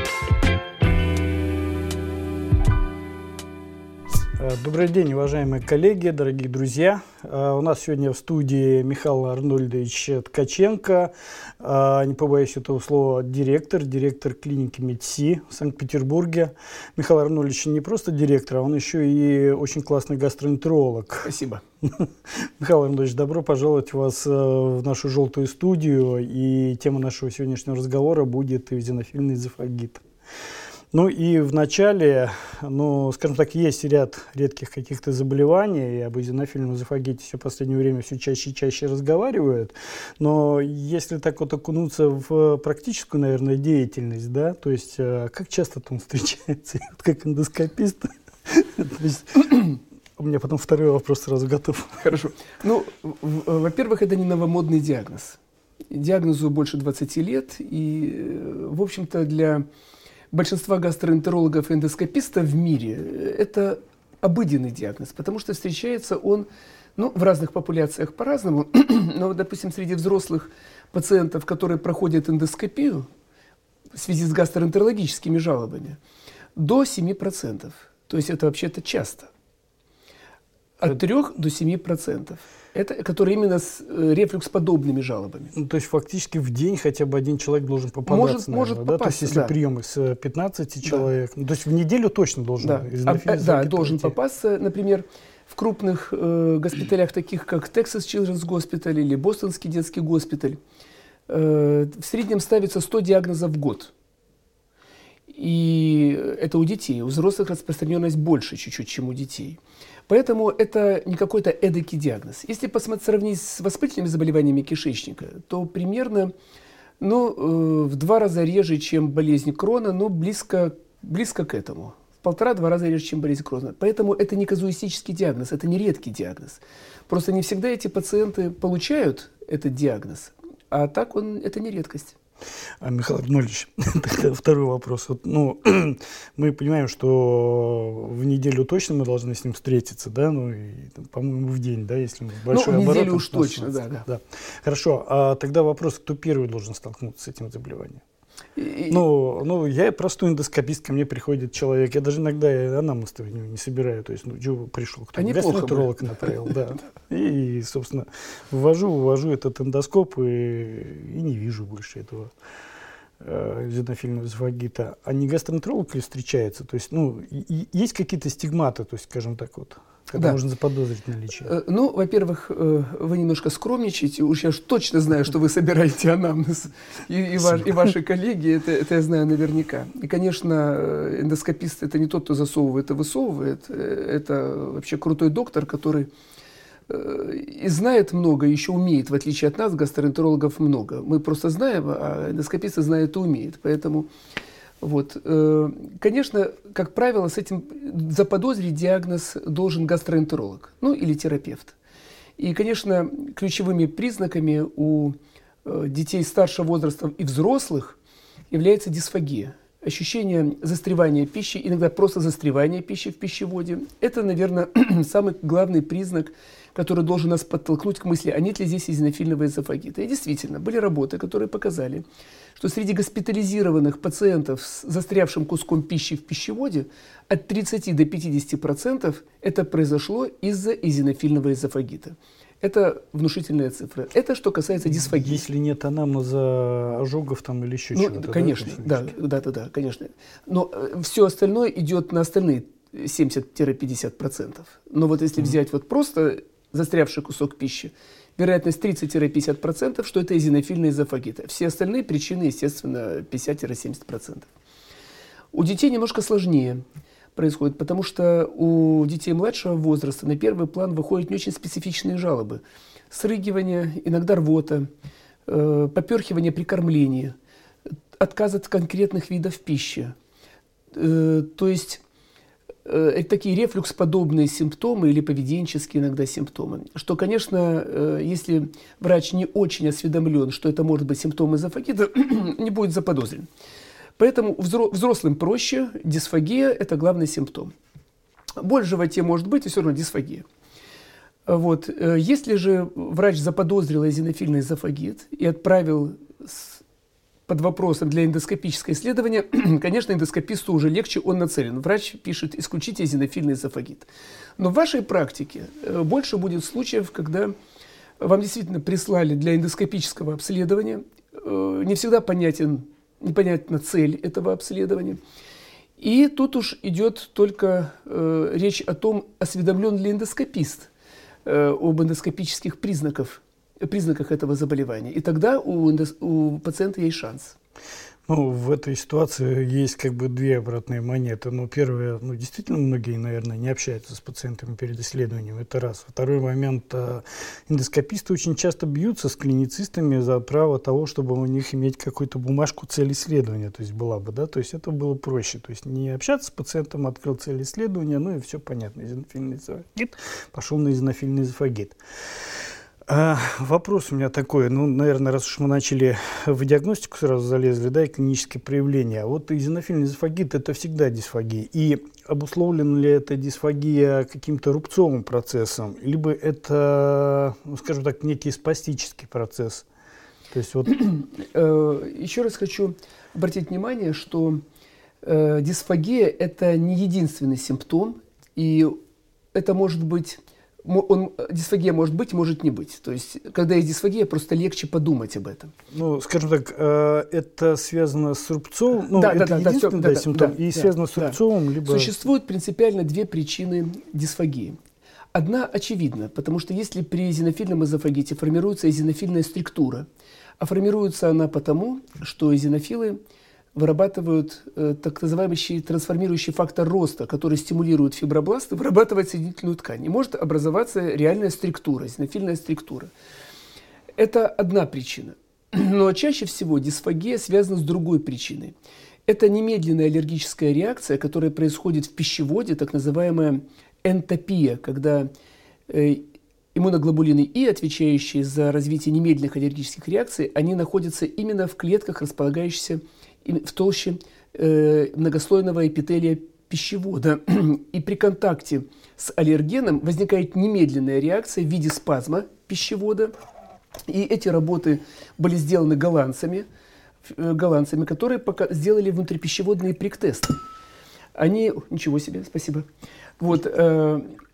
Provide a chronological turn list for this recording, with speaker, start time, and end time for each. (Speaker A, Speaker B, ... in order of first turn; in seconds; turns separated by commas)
Speaker A: 4.4-21.3, Speaker B: 21.2-21.6, Speaker A: 21.8-30.0, Speaker A: 30.9-52.1, Speaker B: 52.0-55.4, Speaker B: 55.9-59.7, Speaker B: 60.3-73.1, Speaker B: 74.0-76.0, Speaker B: 76.6-79.3, Speaker B: 80.8-85.5, Speaker A: 85.5-94.2, Speaker B: 88.1-89.5, Speaker B: 92.6-100.6, Speaker B: 101.3-103.9, Speaker B: 105.3-116.3, Speaker B: 117.0-132.2, Speaker A: 132.8-148.0, Speaker B: 142.5-144.1, Speaker B: 148.6-149.0, Speaker A: 148.9-162.3, Speaker B: 155.2-156.4, Speaker A: 163.2-171.5, Speaker B: 170.1-170.4, Speaker B: 171.4-186.1, Speaker B: 186.9-194.1, Speaker B: 194.8-201.7, Speaker B: 202.4-208.0, Speaker B: 208.5-222.1, Speaker B: 222.6-235.4, Speaker A: 234.9-239.2, Speaker B: 237.9-254.5, Speaker B: 255.5-256.8, Speaker B: 257.4-264.9, Speaker B: 265.5-267.4, Speaker B: 268.2-270.1, Speaker B: 270.9-272.0, Speaker B: 272.9-283.5, Speaker B: 284.2-287.7, Speaker B: 288.6-290.4, Speaker B: 291.5-296.8, Speaker B: 297.5-307.5, Speaker B: 308.2-315.2, Speaker B: 316.0-320.9, Speaker B: 321.4-327.6, Speaker A: 328.3-352.0, Speaker A: 353.1-369.9, Speaker A: 370.5-371.0, Speaker B: 370.9-374.6, Speaker B: 375.2-379.0, Speaker B: 379.5-385.7, Speaker A: 385.9-392.1, Speaker B: 389.1-394.8, Speaker B: 395.4-400.1, Speaker B: 400.6-403.2, Speaker B: 403.8-413.1, Speaker B: 414.2-418.7, Speaker B: 419.3-425.3, Speaker B: 425.9-443.3, Speaker B: 444.1-446.7, Speaker B: 447.3-450.6, Speaker B: 451.4-452.9, Speaker B: 453.4-454.3